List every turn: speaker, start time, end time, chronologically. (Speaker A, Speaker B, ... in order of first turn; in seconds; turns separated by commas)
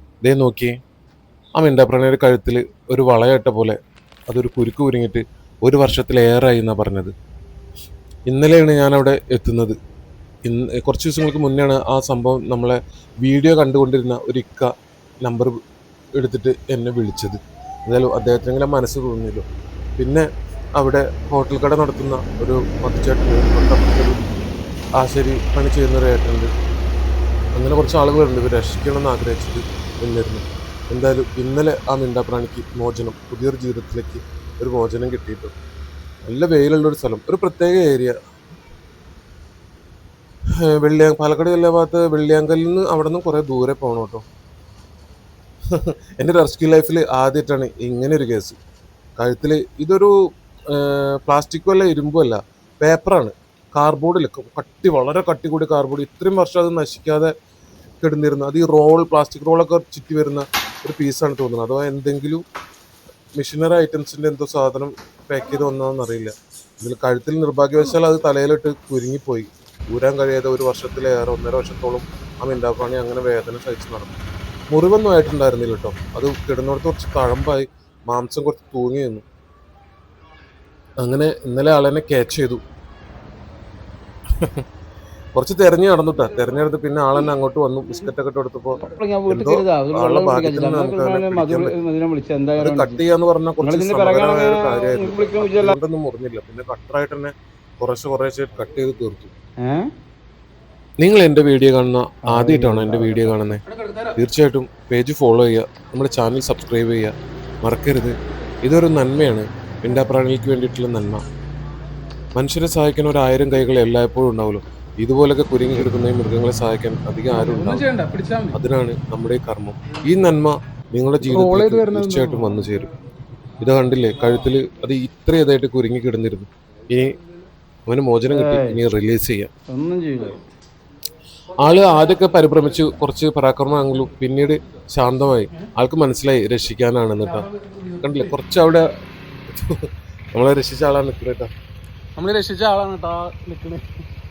Speaker A: 0.2-0.8, Speaker A: 1.6-3.8, Speaker A: 4.3-7.1, Speaker A: 8.3-9.8, Speaker A: 10.4-14.7, Speaker A: 15.2-15.6, Speaker A: 16.2-19.4, Speaker A: 20.0-20.3, Speaker A: 20.8-26.5, Speaker A: 27.6-35.5, Speaker A: 36.2-38.2, Speaker A: 40.6-44.2, Speaker A: 45.7-48.6, Speaker A: 49.2-50.1, Speaker A: 50.7-57.3, Speaker A: 58.0-62.4, Speaker A: 63.4-74.2, Speaker A: 74.7-79.2, Speaker A: 81.0-82.6, Speaker A: 84.4-84.6, Speaker A: 85.3-91.7, Speaker B: 88.8-93.0, Speaker A: 92.6-99.3, Speaker B: 93.6-95.8, Speaker A: 101.0-103.6, Speaker B: 102.3-103.6, Speaker C: 103.7-104.2, Speaker A: 104.2-107.1, Speaker A: 107.6-111.2, Speaker A: 112.3-117.9, Speaker C: 117.3-118.6, Speaker A: 118.5-122.9, Speaker C: 121.3-122.5, Speaker A: 123.6-127.2, Speaker A: 127.9-129.5, Speaker B: 128.3-128.8, Speaker B: 129.7-130.4, Speaker A: 131.6-137.5, Speaker C: 137.2-138.3, Speaker A: 138.0-138.9, Speaker A: 139.5-141.5, Speaker C: 142.2-143.8